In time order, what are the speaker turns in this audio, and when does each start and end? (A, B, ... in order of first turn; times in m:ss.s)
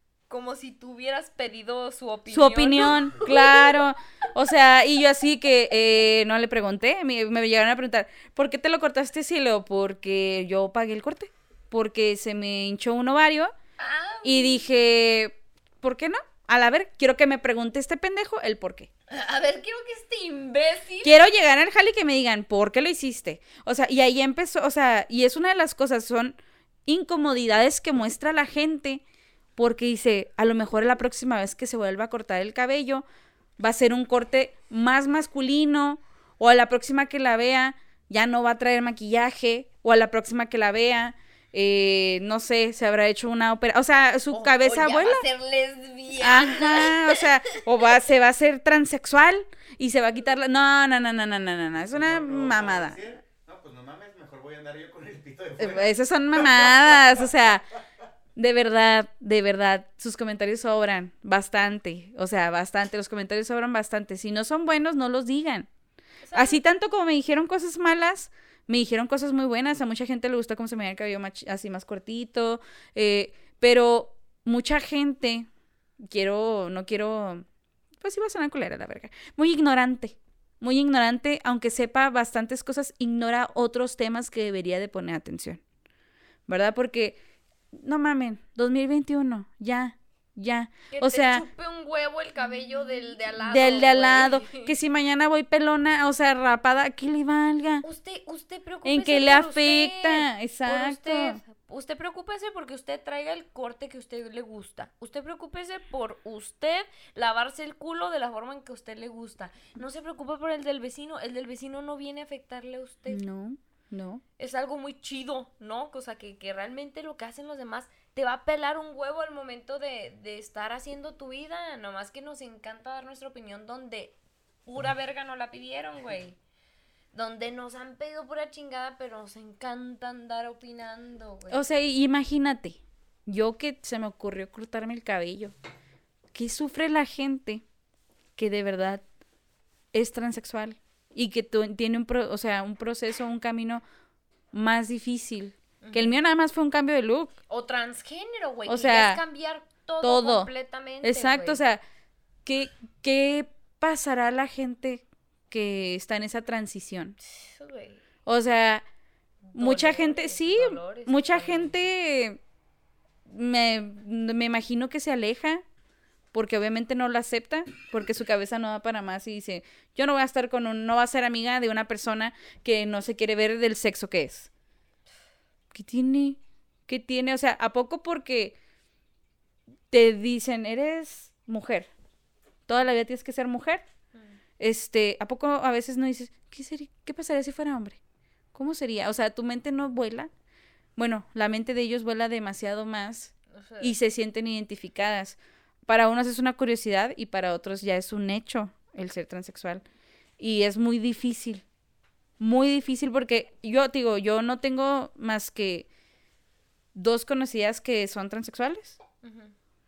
0:00.3-0:03.8 A
0:02.3-0:13.5 B
0:13.8-0:14.6 A
0:14.2-0:18.9 B
0:19.1-0:21.1 A
0:21.0-0:29.0 B
0:29.6-0:33.0 B
0:33.6-0:45.2 B
0:44.3-0:47.6 A
0:46.2-0:53.0 B
0:51.9-0:57.3 C
0:55.6-0:57.6 B
0:58.4-1:05.7 B
1:06.2-1:06.6 A
1:06.3-1:15.5 B
1:16.0-1:17.4 B
1:18.0-1:25.6 B
1:26.5-1:27.2 B
1:27.7-1:31.4 B
1:30.9-1:34.7 A
1:33.4-1:37.8 B
1:37.8-1:53.2 A
1:38.8-1:41.4 B
1:53.1-1:54.2 B
1:54.4-2:06.4 A
2:07.1-2:11.6 A
2:11.5-2:15.5 B
2:16.3-2:17.6 B
2:18.4-2:19.0 B
2:19.9-2:23.8 B
2:24.5-2:27.3 B
2:25.8-2:26.2 A
2:27.5-2:31.6 A
2:28.7-2:29.2 B
2:30.0-2:30.5 B
2:31.0-2:31.8 B
2:32.4-2:37.2 B
2:37.2-2:38.0 A
2:38.2-2:38.8 B
2:39.4-2:41.7 A
2:39.5-2:42.4 B
2:43.2-2:45.6 B
2:46.3-2:54.5 B
2:55.7-2:58.6 B
2:59.9-3:01.9 B
3:02.7-3:03.8 B
3:04.6-3:08.0 B
3:08.5-3:10.3 B
3:11.0-3:19.8 B
3:13.5-3:13.9 A
3:20.4-3:21.6 B
3:22.4-3:25.9 B
3:26.9-3:29.0 B
3:29.2-3:29.5 A